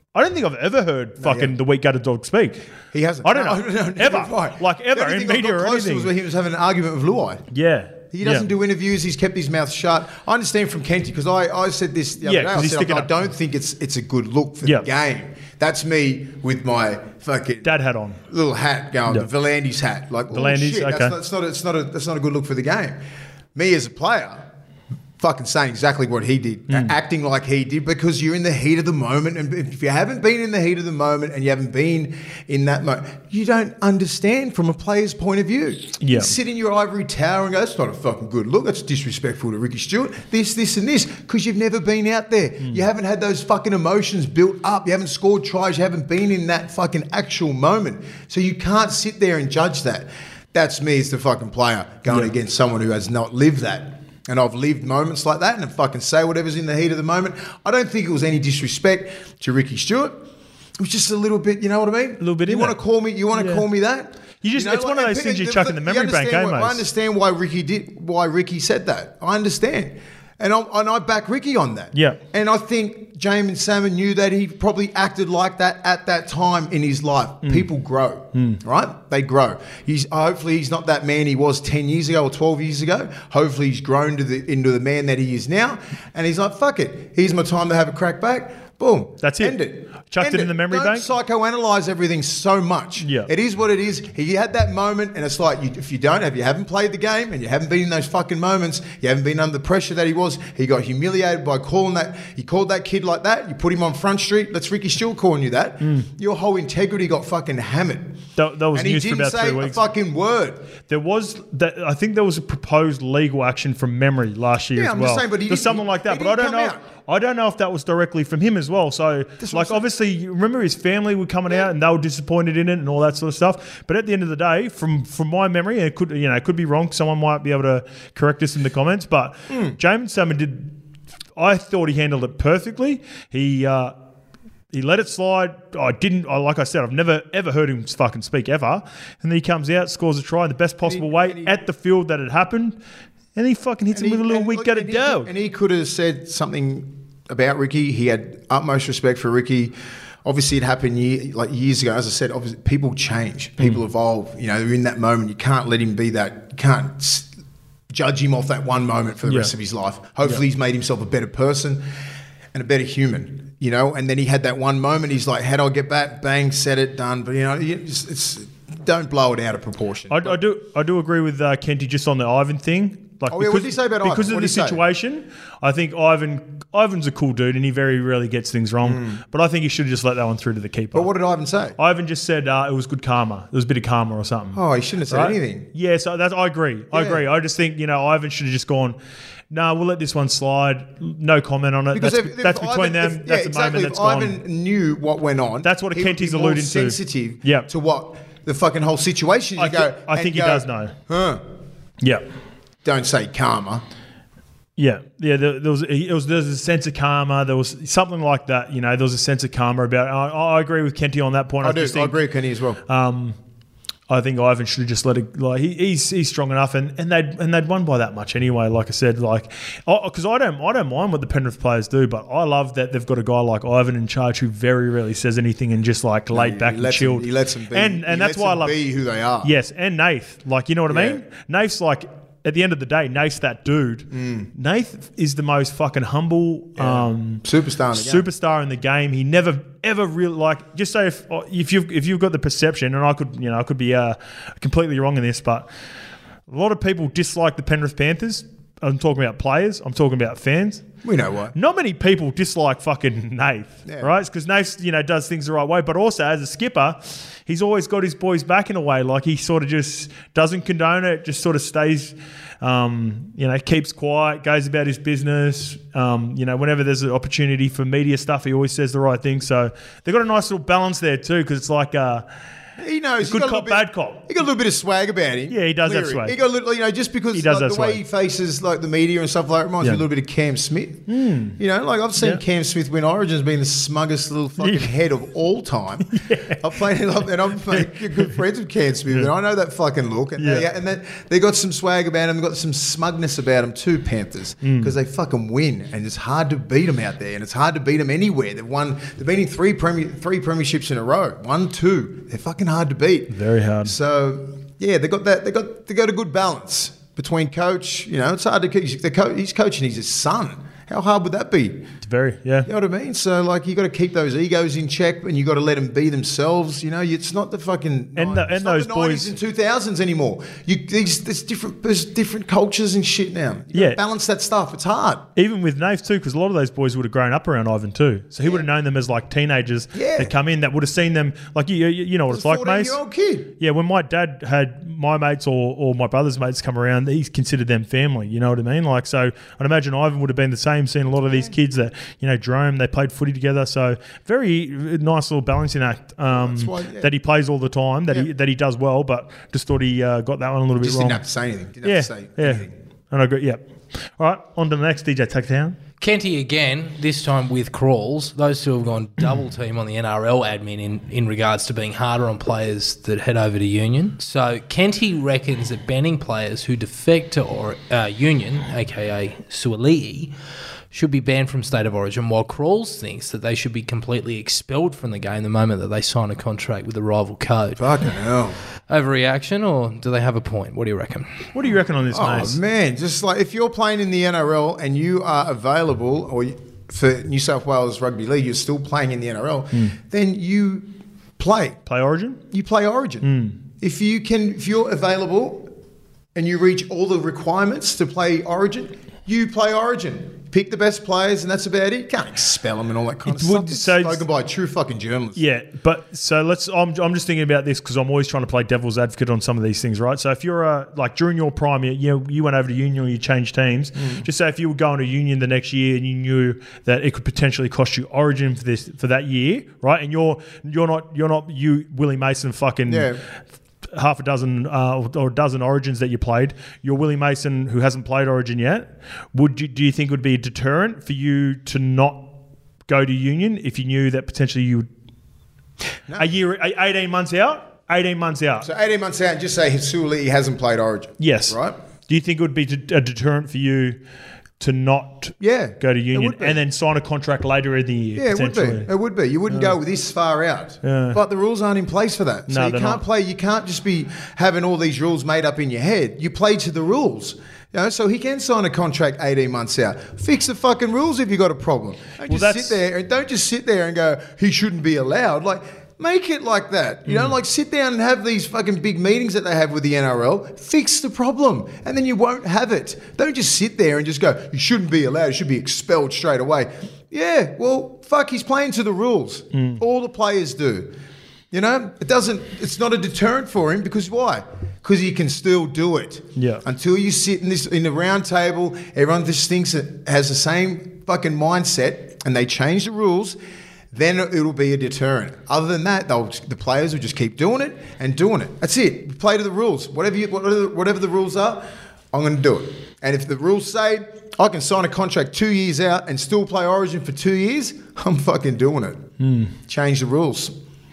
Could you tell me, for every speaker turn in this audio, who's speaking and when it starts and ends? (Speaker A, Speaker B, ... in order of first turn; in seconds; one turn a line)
Speaker A: 0.1-2.6
Speaker B: 1.2-1.5
Speaker B: 2.9-7.5
Speaker A: 3.2-6.1
Speaker A: 7.5-8.5
Speaker B: 8.1-17.7
Speaker A: 12.2-13.2
Speaker A: 14.6-14.9
Speaker A: 17.6-18.2
Speaker B: 18.3-23.0
Speaker A: 20.3-21.1
Speaker B: 23.6-24.4
Speaker B: 25.2-108.2
Speaker A: 36.0-36.4
Speaker A: 62.2-62.8
Speaker A: 63.4-63.6
Speaker A: 64.4-66.8
Speaker A: 71.9-72.2
Speaker A: 78.3-78.6
Speaker A: 89.2-89.6
Speaker A: 90.1-91.1
Speaker A: 93.0-93.3
Speaker A: 108.4-109.8
Speaker B: 108.7-110.7
Speaker A: 110.9-130.7
Speaker B: 114.8-116.8
Speaker B: 119.4-119.8
Speaker B: 129.5-129.8
Speaker A: 131.4-133.9
Speaker A: 134.7-142.8
Speaker B: 140.8-141.6
Speaker A: 143.4-145.3
Speaker B: 143.9-157.3
Speaker B: 157.9-161.8
Speaker A: 159.3-159.5
Speaker B: 162.5-170.4
Speaker A: 170.1-181.1
Speaker B: 173.3-174.8
Speaker B: 178.8-179.2
Speaker B: 180.9-181.8
Speaker A: 181.8-189.0
Speaker B: 184.5-185.7
Speaker B: 186.9-187.2
Speaker A: 189.5-194.4
Speaker B: 191.9-201.4
Speaker A: 195.6-197.7
Speaker A: 199.6-200.9
Speaker B: 202.8-203.8
Speaker A: 204.8-212.2
Speaker B: 211.6-212.8
Speaker A: 212.9-213.4
Speaker A: 214.1-228.8
Speaker B: 226.3-229.5
Speaker A: 229.4-245.7
Speaker B: 230.9-231.2
Speaker B: 234.1-234.5
Speaker B: 236.8-238.2
Speaker A: 246.5-250.9
Speaker B: 251.0-251.5
Speaker A: 251.5-272.2
Speaker B: 253.9-254.1
Speaker B: 272.8-311.9
Speaker A: 273.2-274.3
Speaker A: 275.5-276.4
Speaker A: 277.3-278.0
Speaker A: 281.1-281.6
Speaker A: 284.6-284.9
Speaker A: 286.1-286.6
Speaker A: 287.7-288.3
Speaker A: 290.4-290.7
Speaker A: 294.6-294.9
Speaker A: 303.3-303.9
Speaker A: 312.0-312.7
Speaker B: 312.7-325.3
Speaker A: 318.2-319.3
Speaker A: 323.7-324.0
Speaker A: 325.4-333.0
Speaker B: 329.9-330.3
Speaker B: 332.3-333.5
Speaker A: 333.6-351.2
Speaker B: 341.3-341.5
Speaker B: 346.3-347.1
Speaker B: 350.8-352.7
Speaker A: 351.8-355.8
Speaker C: 356.0-370.3
Speaker C: 370.9-377.9
Speaker B: 377.8-378.6
Speaker C: 378.9-381.4
Speaker A: 381.5-382.6
Speaker B: 382.1-391.8
Speaker A: 391.9-392.4
Speaker B: 392.5-393.3
Speaker A: 393.2-393.6
Speaker B: 393.8-395.7
Speaker B: 396.4-405.4
Speaker A: 403.3-404.2
Speaker A: 405.4-423.1
Speaker B: 414.0-414.3
Speaker B: 422.9-423.2
Speaker A: 423.9-432.3
Speaker A: 432.9-434.9
Speaker A: 436.2-438.7
Speaker B: 438.6-441.8
Speaker A: 441.2-444.0
Speaker A: 444.6-448.9
Speaker B: 445.4-446.6
Speaker B: 448.2-480.9
Speaker A: 449.5-449.8
Speaker A: 450.8-451.2
Speaker A: 452.5-453.0
Speaker A: 462.2-462.8
Speaker A: 467.1-467.3
Speaker A: 479.5-479.8
Speaker B: 481.5-493.4
Speaker A: 486.4-486.6
Speaker B: 493.9-509.0
Speaker A: 509.2-509.6
Speaker B: 509.7-510.6